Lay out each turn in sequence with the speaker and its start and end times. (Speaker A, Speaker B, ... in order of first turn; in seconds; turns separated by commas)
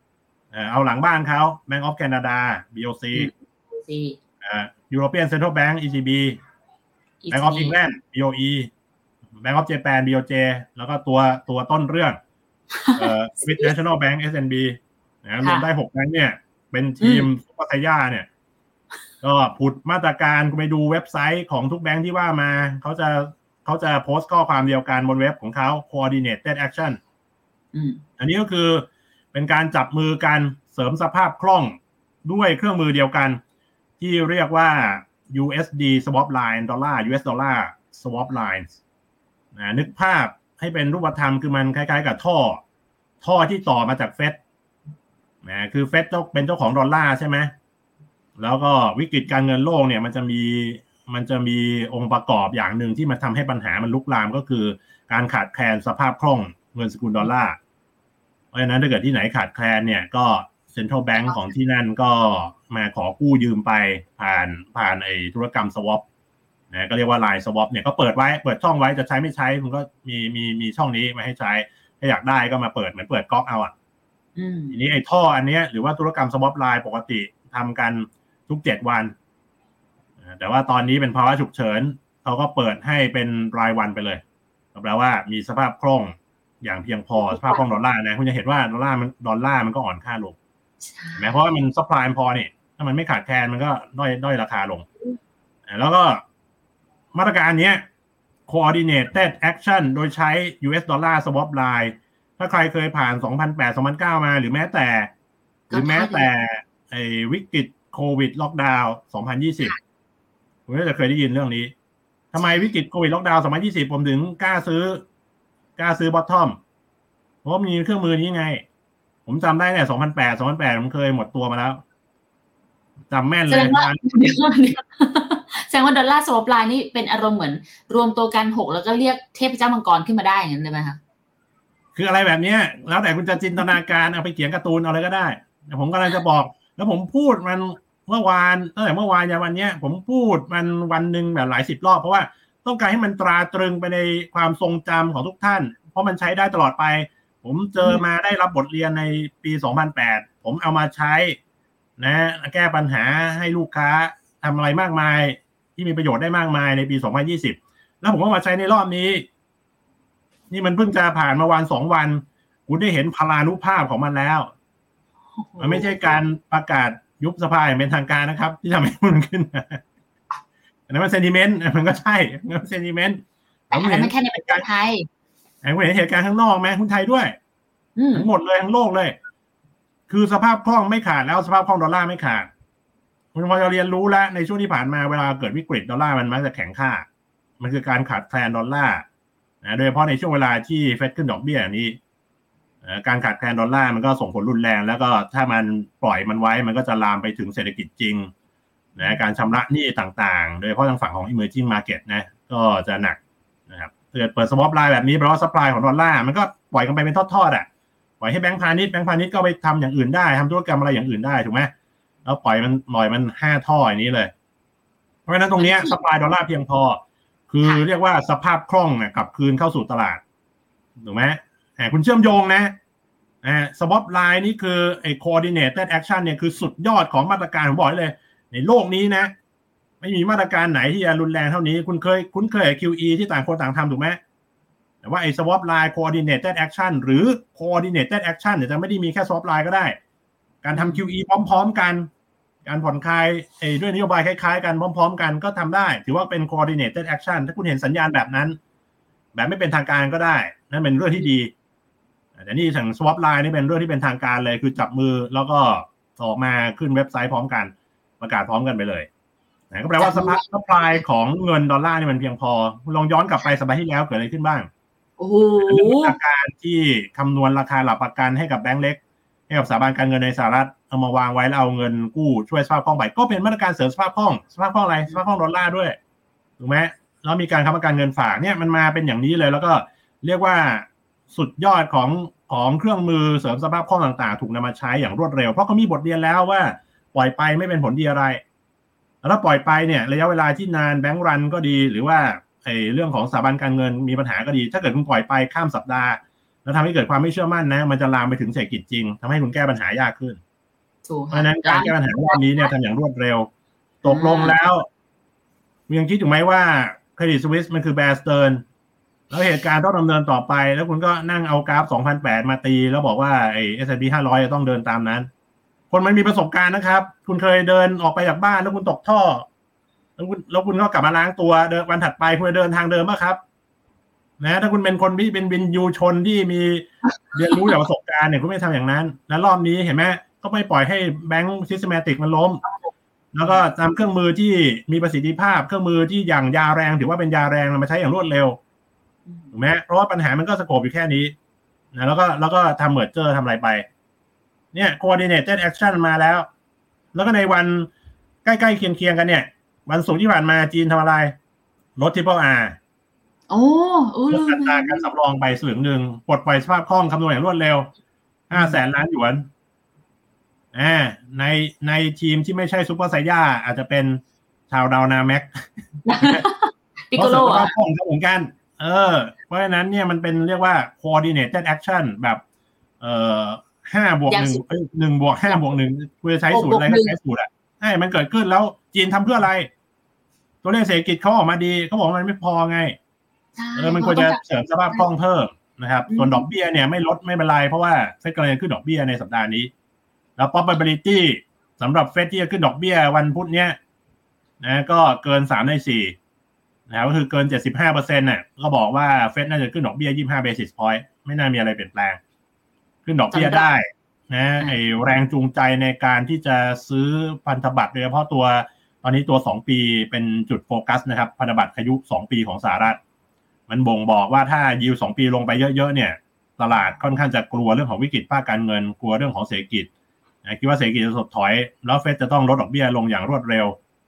Speaker A: 0.5-3.3, Speaker B: 3.1-4.2, Speaker A: 4.4-6.4, Speaker B: 7.2-7.8, Speaker A: 7.3-8.7, Speaker A: 9.4-12.2, Speaker B: 12.7-13.7, Speaker A: 12.9-18.3, Speaker B: 17.0-17.3, Speaker A: 19.2-27.0, Speaker B: 27.7-28.0, Speaker A: 28.2-33.4, Speaker A: 34.0-38.7, Speaker A: 39.5-42.6, Speaker A: 43.2-44.4, Speaker A: 45.4-47.5, Speaker A: 48.4-57.6, Speaker A: 58.5-66.0, Speaker A: 66.7-73.7, Speaker B: 74.3-74.8, Speaker A: 74.7-79.1, Speaker A: 80.2-84.2, Speaker A: 84.7-90.3, Speaker B: 87.2-87.6, Speaker B: 90.8-91.3, Speaker A: 91.2-94.8, Speaker A: 95.7-96.2, Speaker A: 97.1-97.8, Speaker A: 98.5-105.1, Speaker B: 105.7-106.3, Speaker A: 105.7-109.7, Speaker A: 110.7-111.7, Speaker A: 112.3-115.0, Speaker B: 112.4-112.7, Speaker A: 115.8-116.6, Speaker A: 117.4-118.6, Speaker A: 119.2-121.8, Speaker A: 123.1-124.0, Speaker B: 123.5-131.0, Speaker A: 131.9-151.4, Speaker A: 152.0-159.2, Speaker A: 160.5-164.5, Speaker B: 165.3-165.9, Speaker A: 165.6-169.8, Speaker A: 170.9-174.6, Speaker B: 173.7-175.1, Speaker A: 175.6-177.3, Speaker B: 177.9-178.3, Speaker A: 178.1-179.1, Speaker A: 180.1-182.5, Speaker A: 183.3-187.1, Speaker A: 187.6-189.0, Speaker A: 189.6-192.0, Speaker A: 192.8-198.3, Speaker A: 198.9-203.2, Speaker A: 203.7-207.7, Speaker A: 208.2-211.7, Speaker A: 212.2-214.3, Speaker A: 215.3-220.2, Speaker B: 215.6-215.9, Speaker A: 221.0-222.7, Speaker A: 223.4-229.3, Speaker A: 230.0-234.2, Speaker A: 235.0-240.0, Speaker A: 240.6-242.1, Speaker B: 240.7-241.0, Speaker A: 242.6-248.6, Speaker A: 249.3-251.5, Speaker A: 252.4-259.1, Speaker A: 259.7-264.7, Speaker B: 260.0-260.4, Speaker B: 265.2-266.1, Speaker A: 265.6-275.9, Speaker A: 276.6-288.4, Speaker A: 289.2-300.4, Speaker B: 301.1-302.6, Speaker A: 301.3-303.5, Speaker A: 304.0-304.9, Speaker B: 304.0-304.6, Speaker A: 305.9-308.6, Speaker A: 309.3-315.3, Speaker A: 315.9-319.4, Speaker A: 320.2-323.4, Speaker A: 324.4-332.6, Speaker A: 333.3-338.6, Speaker A: 339.5-341.3, Speaker A: 341.9-343.9, Speaker A: 344.7-346.5, Speaker A: 347.1-347.9, Speaker A: 348.4-351.3, Speaker A: 352.0-352.8, Speaker B: 353.5-355.0, Speaker A: 354.3-357.9, Speaker A: 358.5-359.5, Speaker B: 358.5-358.8, Speaker A: 360.7-365.6, Speaker B: 366.0-367.7, Speaker A: 367.1-372.4, Speaker A: 373.0-379.7, Speaker B: 374.3-374.6, Speaker B: 376.5-377.1, Speaker A: 380.6-382.9, Speaker B: 383.6-385.1, Speaker A: 383.8-389.7, Speaker B: 386.1-386.5, Speaker A: 390.4-393.8, Speaker A: 394.6-396.1, Speaker A: 396.9-402.2, Speaker A: 403.0-413.0, Speaker B: 403.3-403.7, Speaker A: 413.7-419.9, Speaker A: 420.4-423.8